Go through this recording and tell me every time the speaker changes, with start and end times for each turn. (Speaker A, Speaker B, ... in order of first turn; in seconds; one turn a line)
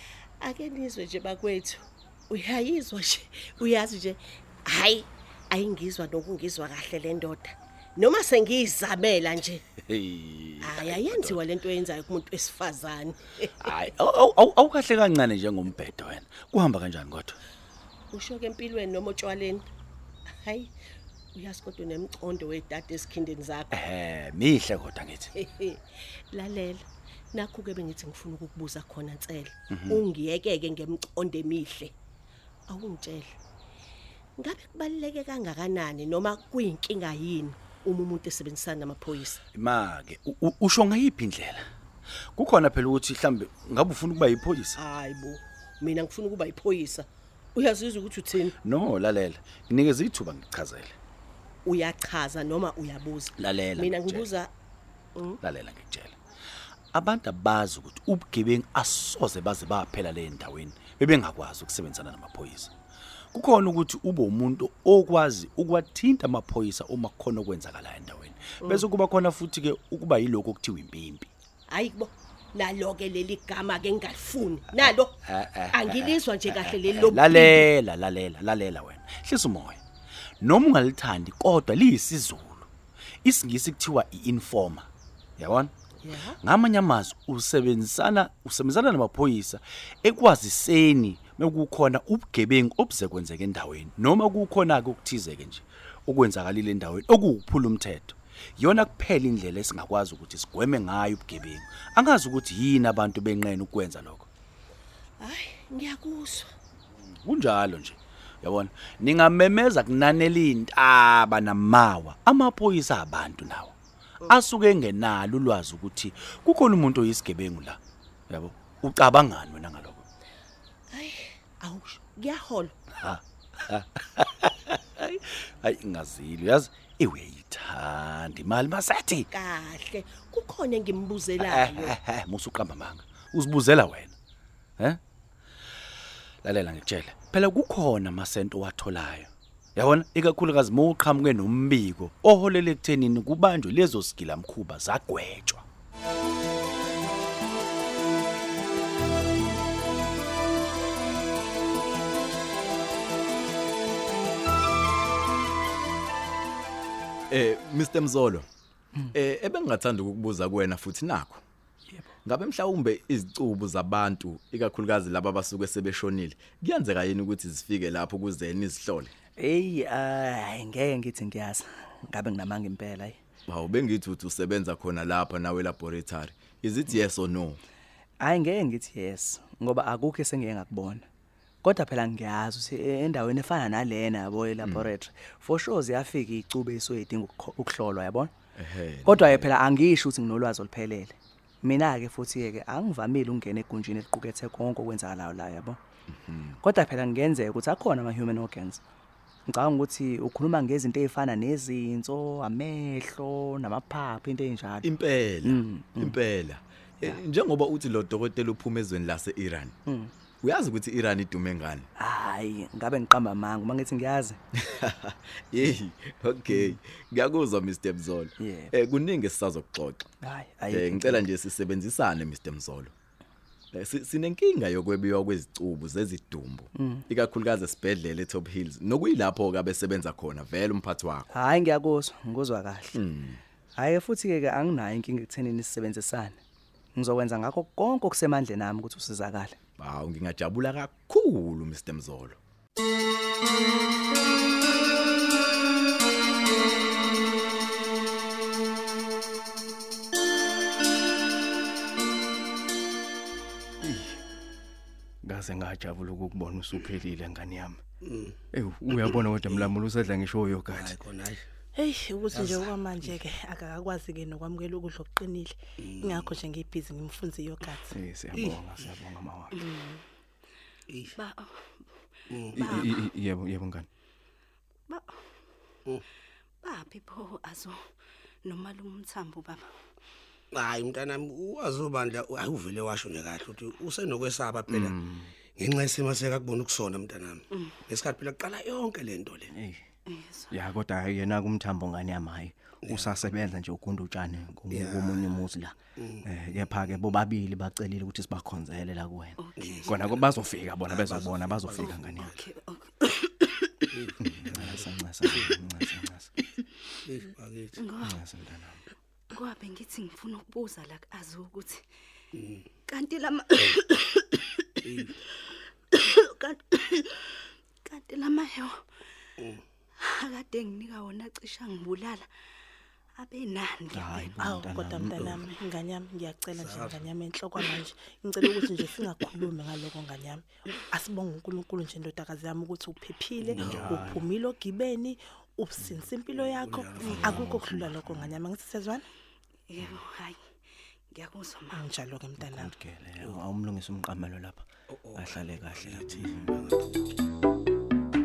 Speaker A: 0.4-9.6
Speaker B: 9.8-11.4
Speaker A: 10.6-13.7
Speaker B: 13.6-17.4
Speaker A: 18.1-19.6
Speaker A: 20.4-20.7
Speaker A: 21.3-23.8
Speaker B: 23.7-25.3
Speaker A: 25.4-31.9
Speaker B: 29.7-30.0
Speaker A: 32.7-33.4
Speaker A: 34.4-39.4
Speaker B: 39.5-41.6
Speaker B: 42.3-44.8
Speaker A: 44.8-48.5
Speaker B: 48.6-51.0
Speaker A: 51.6-54.5
Speaker B: 53.4-54.3
Speaker B: 55.4-56.2
Speaker B: 56.9-62.7
Speaker B: 63.3-71.3
Speaker A: 71.7-75.2
Speaker B: 74.8-79.8
Speaker A: 75.7-77.7
Speaker B: 80.4-82.7
Speaker B: 83.2-85.7
Speaker A: 86.0-86.4
Speaker B: 86.4-104.2
Speaker A: 105.2-106.5
Speaker B: 107.1-113.7
Speaker B: 114.3-117.8
Speaker B: 118.3-120.0
Speaker A: 120.9-122.7
Speaker B: 123.0-129.3
Speaker A: 129.3-131.9
Speaker B: 131.4-134.1
Speaker B: 136.4-145.6
Speaker C: 157.3-158.5
Speaker C: 159.1-161.4
Speaker C: 162.2-169.1
Speaker D: 169.4-173.2
Speaker C: 173.5-177.6
Speaker D: 178.2-181.0
Speaker D: 181.6-188.3
Speaker C: 184.6-184.9
Speaker C: 188.6-189.5
Speaker D: 189.0-195.8
Speaker C: 196.1-196.6
Speaker D: 196.6-198.8
Speaker D: 199.5-204.9
Speaker C: 204.8-209.8
Speaker D: 205.4-206.1
Speaker D: 209.9-210.1
Speaker C: 210.4-211.9
Speaker D: 212.0-214.4
Speaker C: 214.5-220.1
Speaker D: 218.4-218.7
Speaker D: 220.2-221.3
Speaker C: 220.7-222.9
Speaker C: 223.7-231.3
Speaker D: 226.8-227.0
Speaker D: 231.3-233.0
Speaker C: 232.9-233.4
Speaker D: 233.8-236.4
Speaker D: 236.9-239.6
Speaker C: 239.8-242.4
Speaker E: 253.8-254.2
Speaker E: 255.2-257.8
Speaker F: 258.0-258.3
Speaker E: 258.5-260.9
Speaker F: 260.7-261.4
Speaker G: 261.8-267.9
Speaker F: 262.3-263.2
Speaker F: 265.8-266.3
Speaker E: 267.9-269.6
Speaker H: 269.6-270.0
Speaker H: 271.1-271.6
Speaker F: 272.3-272.8
Speaker H: 272.5-273.0
Speaker E: 272.5-273.9
Speaker H: 274.9-275.2
Speaker H: 276.6-277.8
Speaker H: 278.4-279.7
Speaker F: 280.5-284.9
Speaker E: 284.7-285.3
Speaker F: 285.6-289.5
Speaker E: 289.5-289.8
Speaker H: 290.1-290.6
Speaker E: 290.5-302.3
Speaker F: 292.8-293.3
Speaker F: 294.7-295.2
Speaker H: 299.4-300.1
Speaker F: 299.6-302.4
Speaker H: 301.7-304.0
Speaker F: 303.9-304.8
Speaker E: 304.2-306.3
Speaker F: 307.1-307.8
Speaker H: 307.8-308.2
Speaker E: 308.0-308.8
Speaker H: 309.3-311.8
Speaker H: 312.9-314.9
Speaker H: 315.9-317.2
Speaker H: 317.8-318.8
Speaker H: 320.0-322.3
Speaker H: 323.2-324.4
Speaker E: 323.9-325.4
Speaker G: 324.4-339.0
Speaker F: 326.6-327.0
Speaker F: 333.6-334.1
Speaker E: 333.6-334.2
Speaker E: 335.8-336.1
Speaker F: 336.2-338.2
Speaker E: 337.0-337.5
Speaker H: 339.7-340.4
Speaker H: 341.1-341.9
Speaker G: 341.7-342.7
Speaker E: 342.4-344.6
Speaker F: 344.9-347.0
Speaker E: 345.1-346.5